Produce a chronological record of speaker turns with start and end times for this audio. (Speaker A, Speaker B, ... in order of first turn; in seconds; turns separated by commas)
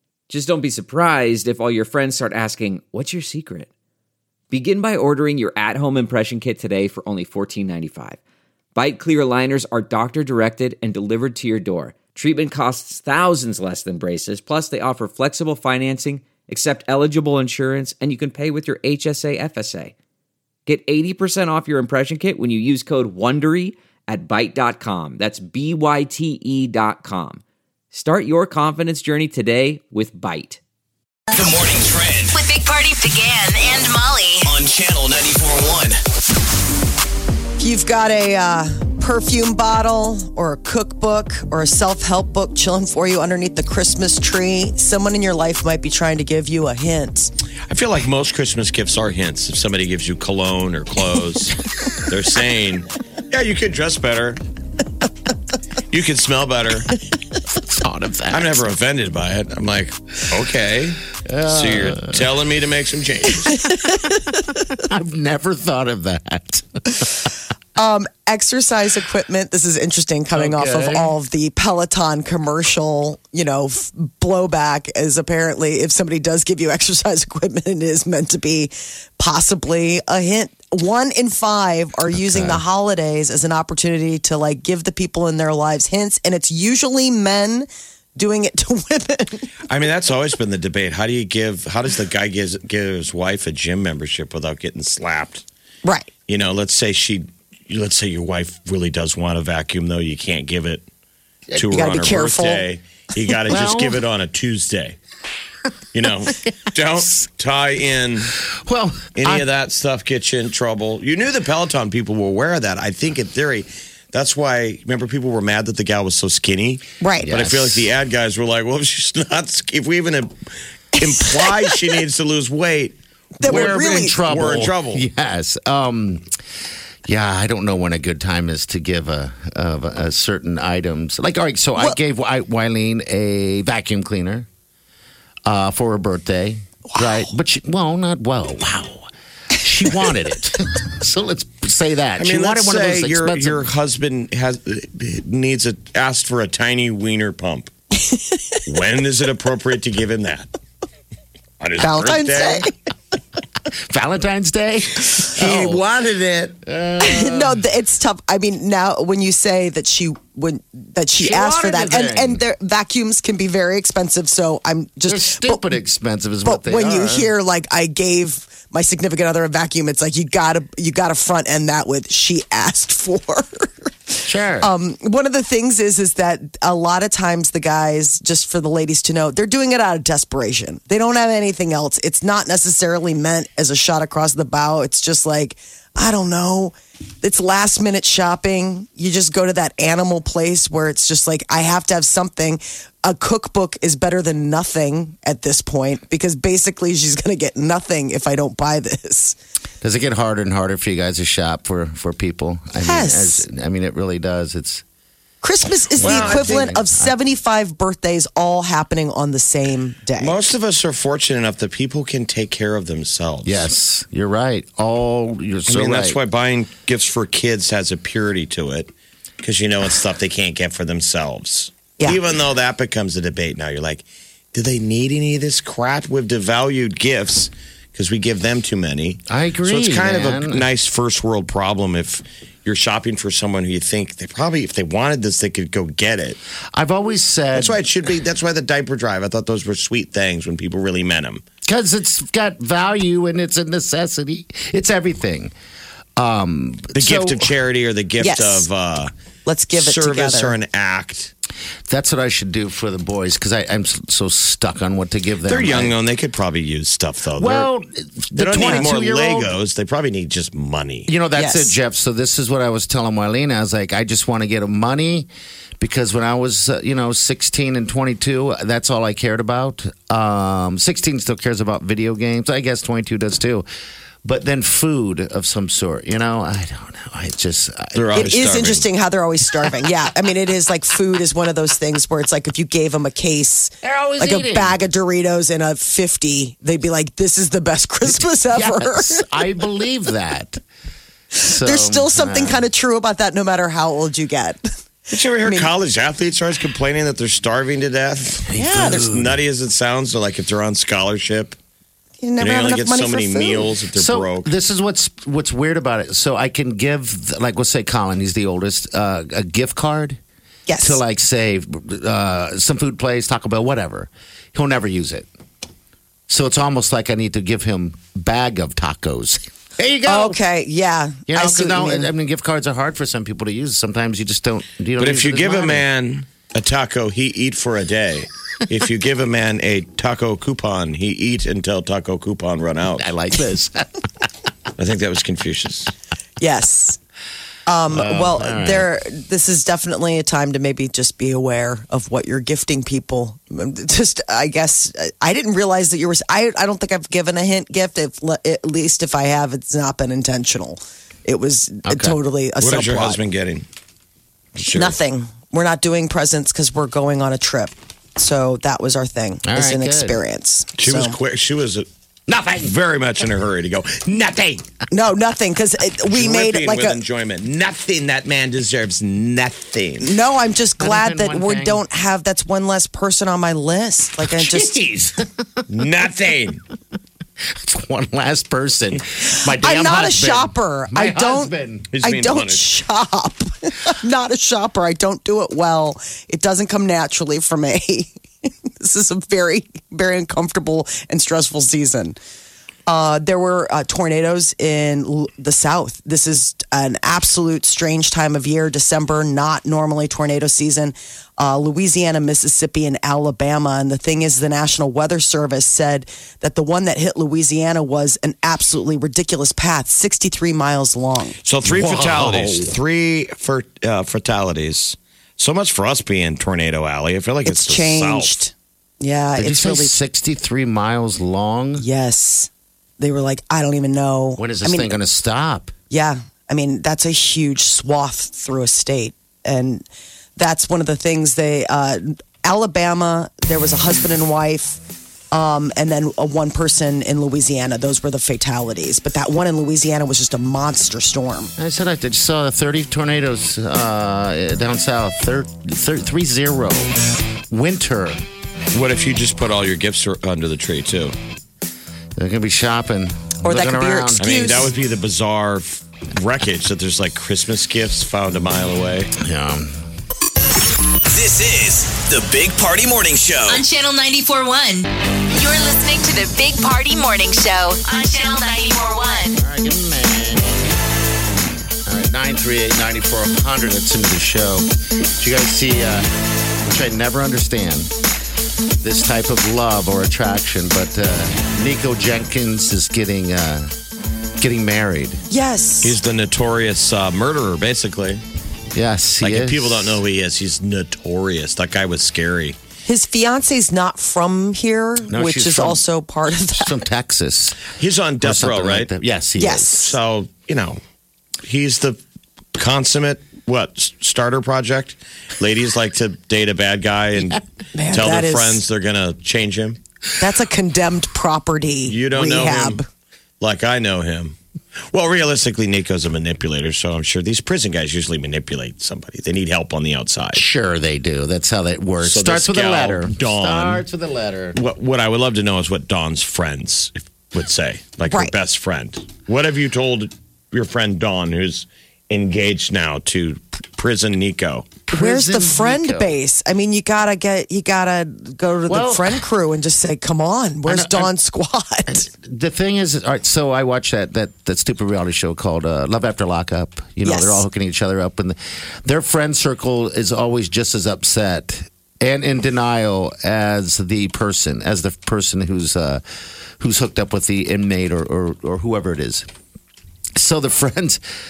Speaker A: 0.3-3.7, Speaker A: 4.5-8.2, Speaker A: 8.8-19.9, Speaker A: 20.7-27.4, Speaker A: 27.9-30.6, Speaker B: 31.3-32.4, Speaker C: 32.3-34.5, Speaker B: 34.5-36.0, Speaker D: 37.6-47.3, Speaker E: 47.7-54.4, Speaker E: 55.9-56.9, Speaker F: 57.6-58.6, Speaker E: 58.3-63.6, Speaker F: 61.2-62.3, Speaker D: 63.4-64.3, Speaker F: 64.8-67.3, Speaker D: 67.8-89.5, Speaker F: 70.3-71.2, Speaker F: 82.1-82.6, Speaker E: 89.7-95.4, Speaker E: 96.3-100.8, Speaker E: 101.5-105.0, Speaker D: 101.6-102.7, Speaker F: 103.5-104.0, Speaker E: 105.9-108.4, Speaker F: 108.5-109.5, Speaker E: 109.2-120.3, Speaker D: 117.0-117.3, Speaker F: 117.2-117.9, Speaker E: 121.0-125.1, Speaker D: 121.0-121.8, Speaker D: 123.4-124.2, Speaker F: 123.4-126.2, Speaker F: 127.1-134.5, Speaker F: 135.5-139.1, Speaker D: 137.0-137.3, Speaker F: 139.6-143.7, Speaker E: 142.2-147.7, Speaker D: 148.0-148.6, Speaker E: 148.7-150.5, Speaker E: 151.6-152.7, Speaker D: 151.8-152.7, Speaker F: 153.7-155.8, Speaker D: 155.3-155.8, Speaker E: 155.3-156.6, Speaker F: 156.7-157.6, Speaker D: 157.0-165.7, Speaker F: 161.2-162.4, Speaker F: 165.1-167.3, Speaker D: 166.4-199.4, Speaker F: 174.2-174.7, Speaker F: 199.8-204.8, Speaker D: 202.8-203.5, Speaker D: 205.4-210.4, Speaker F: 206.0-207.2, Speaker E: 206.0-206.7, Speaker E: 210.2-213.7, Speaker F: 213.4-216.2, Speaker E: 215.7-218.9, Speaker E: 219.4-236.4, Speaker F: 229.3-230.7, Speaker F: 236.7-237.8, Speaker E: 237.6-241.4, Speaker F: 241.7-245.5, Speaker F: 246.2-247.5, Speaker E: 246.9-249.1, Speaker D: 248.2-248.7, Speaker D: 249.4-250.6, Speaker E: 249.7-251.3, Speaker F: 251.9-255.9, Speaker E: 255.5-257.7, Speaker F: 257.4-259.5, Speaker E: 258.4-261.1, Speaker D: 258.5-258.9, Speaker F: 261.1-265.3, Speaker D: 261.4-261.8, Speaker F: 265.8-273.7, Speaker F: 274.2-278.3, Speaker E: 277.9-278.9, Speaker D: 278.1-289.5, Speaker F: 283.8-284.8, Speaker F: 288.1-290.6, Speaker D: 291.4-294.6, Speaker F: 291.4-292.7, Speaker E: 295.1-301.6, Speaker D: 295.1-295.7, Speaker F: 298.5-299.4, Speaker D: 298.6-299.1, Speaker D: 302.2-303.7, Speaker E: 302.4-304.5, Speaker F: 303.9-310.2, Speaker D: 310.7-311.0, Speaker F: 310.8-315.3, Speaker F: 316.3-320.4, Speaker D: 320.1-322.1, Speaker F: 321.3-325.9, Speaker E: 325.0-333.1, Speaker F: 333.0-333.9, Speaker E: 334.8-335.9, Speaker D: 336.4-337.0, Speaker D: 337.7-353.2, Speaker F: 337.9-338.9, Speaker F: 351.9-352.2, Speaker E: 352.6-353.7, Speaker E: 354.6-355.0, Speaker D: 354.7-361.2, Speaker F: 359.4-360.2, Speaker E: 360.8-361.9, Speaker F: 362.3-362.7, Speaker E: 362.6-364.6, Speaker D: 364.9-367.0, Speaker E: 366.1-370.1, Speaker D: 370.0-374.8, Speaker F: 370.8-371.8, Speaker F: 374.2-375.6, Speaker E: 375.7-376.6, Speaker F: 377.5-381.9, Speaker D: 379.3-388.1, Speaker E: 381.9-382.7, Speaker D: 388.8-392.2, Speaker D: 392.9-411.4, Speaker E: 411.4-418.4, Speaker F: 411.6-412.8, Speaker D: 417.4-420.0, Speaker F: 419.4-421.9, Speaker D: 421.8-425.0, Speaker F: 424.4-425.7, Speaker D: 425.9-434.8, Speaker D: 435.3-441.5, Speaker F: 441.6-448.2, Speaker E: 448.7-451.2, Speaker F: 452.2-454.2, Speaker D: 453.4-454.7, Speaker E: 454.2-459.1, Speaker F: 459.2-459.7, Speaker B: 461.1-463.6, Speaker C: 463.5-469.3, Speaker F: 469.3-470.7, Speaker F: 471.9-476.1, Speaker F: 476.6-477.9, Speaker F: 478.8-483.7, Speaker F: 484.4-485.2, Speaker D: 485.3-486.0, Speaker E: 485.8-488.2, Speaker F: 488.7-490.0, Speaker E: 489.2-492.6, Speaker D: 492.9-496.8, Speaker F: 495.1-495.8, Speaker F: 496.6-499.8, Speaker E: 497.7-498.9, Speaker D: 499.4-500.0, Speaker E: 499.8-500.8, Speaker E: 501.4-502.0, Speaker E: 502.6-509.8, Speaker D: 507.8-508.6, Speaker D: 510.2-512.8, Speaker E: 511.9-512.8, Speaker E: 513.4-514.4, Speaker E: 514.9-520.5, Speaker F: 520.3-524.6, Speaker E: 522.0-523.8, Speaker E: 524.5-534.8, Speaker F: 534.9-536.1, Speaker D: 534.9-542.1, Speaker F: 538.7-539.2, Speaker F: 540.6-541.1, Speaker F: 541.9-556.0, Speaker D: 547.0-547.5, Speaker F: 556.6-559.3, Speaker F: 560.2-561.0